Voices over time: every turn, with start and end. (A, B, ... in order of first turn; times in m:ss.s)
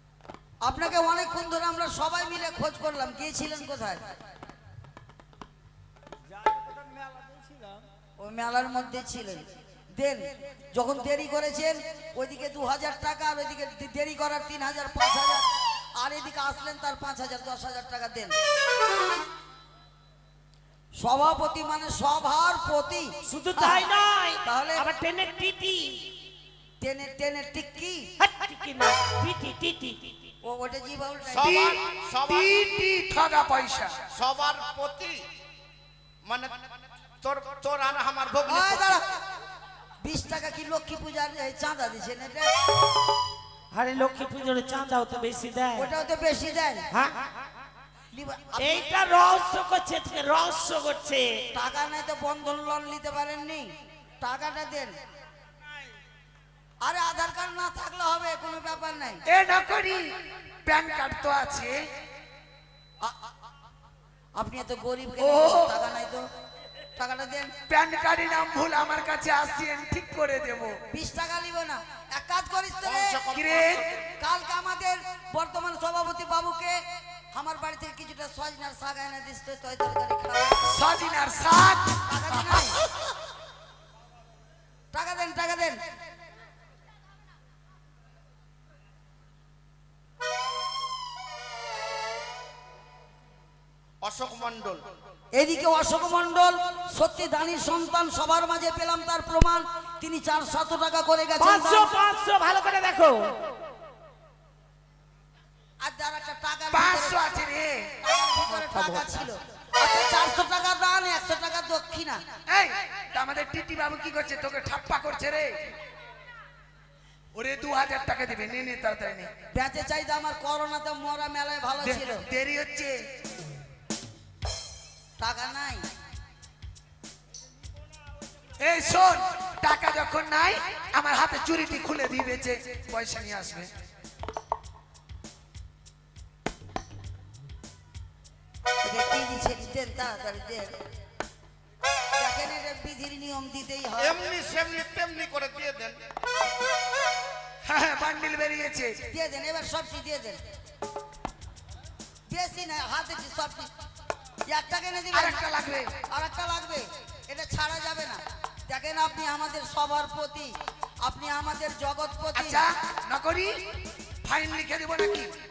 0:00.6-0:04.0 A
0:06.4-0:07.8 B
0:08.2-0:09.4 A
0:09.9-0:15.4 A
0:16.0-0:18.4 A
0:21.0-0:23.9 A
0:23.3-0:26.0 C
0:24.4-0:24.9 A
0:26.8-0:28.1 A
0:28.2-0:30.1 C
0:30.4-0:31.7 A
0:31.3-0:32.5 D
0:31.5-0:33.9 B
0:34.1-0:35.2 D
0:36.2-0:39.0 D
0:38.4-0:39.0 A
0:40.0-0:42.5 A
0:43.7-0:45.9 C
0:45.7-0:46.8 A
0:48.1-0:48.9 A
0:48.6-0:51.3 C
0:51.5-0:53.7 A
0:54.2-0:54.9 A
0:56.8-0:59.2 A
0:59.3-1:00.0 B
1:00.6-1:01.8 B
1:04.4-1:06.2 A
1:05.2-1:05.7 B
1:07.0-1:07.6 A
1:07.6-1:10.8 B
1:10.9-1:13.2 A
1:12.8-1:14.0 D
1:13.3-1:13.8 B
1:14.2-1:16.8 A
1:17.3-1:20.6 A
1:20.6-1:22.6 B
1:22.1-1:22.8 A
1:24.9-1:25.8 A
1:34.0-1:34.8 D
1:35.4-1:41.9 A
1:41.4-1:43.4 C
1:45.8-1:47.4 A
1:46.7-1:47.9 B
1:48.0-1:52.2 A
1:48.6-1:49.1 C
1:52.5-1:55.6 B
1:57.3-1:59.3 B
1:59.5-2:02.2 A
2:01.8-2:03.0 B
2:05.2-2:05.8 A
2:08.6-2:13.7 B
2:18.8-2:20.7 A
2:22.2-2:24.2 A
2:24.0-2:25.9 D
2:27.6-2:29.0 B
2:29.1-2:30.4 A
2:32.3-2:33.7 A
2:34.5-2:35.6 A
2:35.1-2:35.9 B
2:36.1-2:42.6 A
2:42.3-2:43.5 B
2:44.2-2:45.3 B